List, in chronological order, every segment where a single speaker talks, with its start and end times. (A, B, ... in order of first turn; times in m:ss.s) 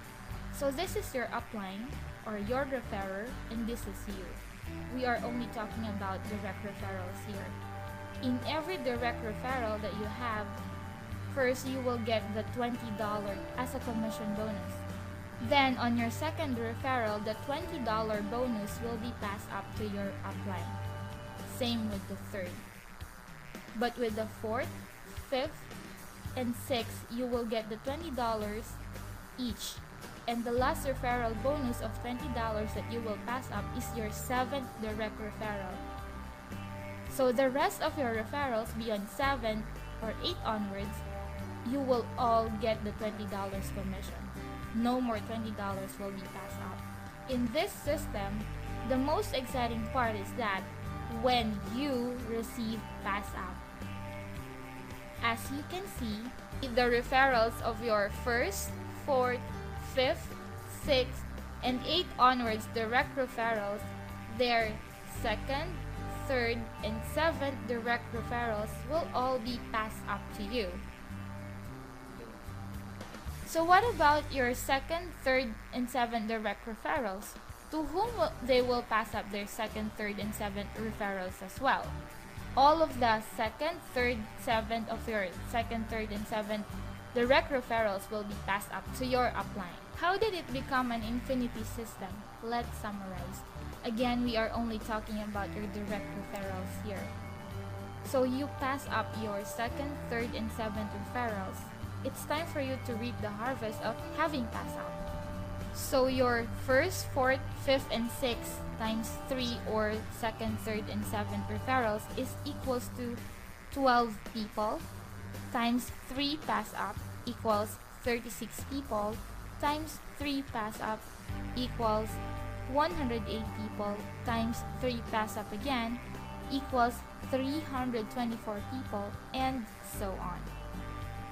0:00.5-0:07.6 A
0:08.2-0:10.6 A
0:11.3-0:14.8 A
0:15.4-0:20.8 A
0:21.4-0:22.6 A
0:23.7-0:25.7 A
0:26.3-0:28.8 A
0:29.4-0:35.8 A
0:37.1-0:41.0 A
0:41.6-0:53.6 A
0:55.2-1:10.8 A
1:13.4-1:22.0 A
1:22.6-1:37.1 A
1:38.0-1:45.0 A
1:45.7-1:54.8 A
1:55.5-2:10.5 A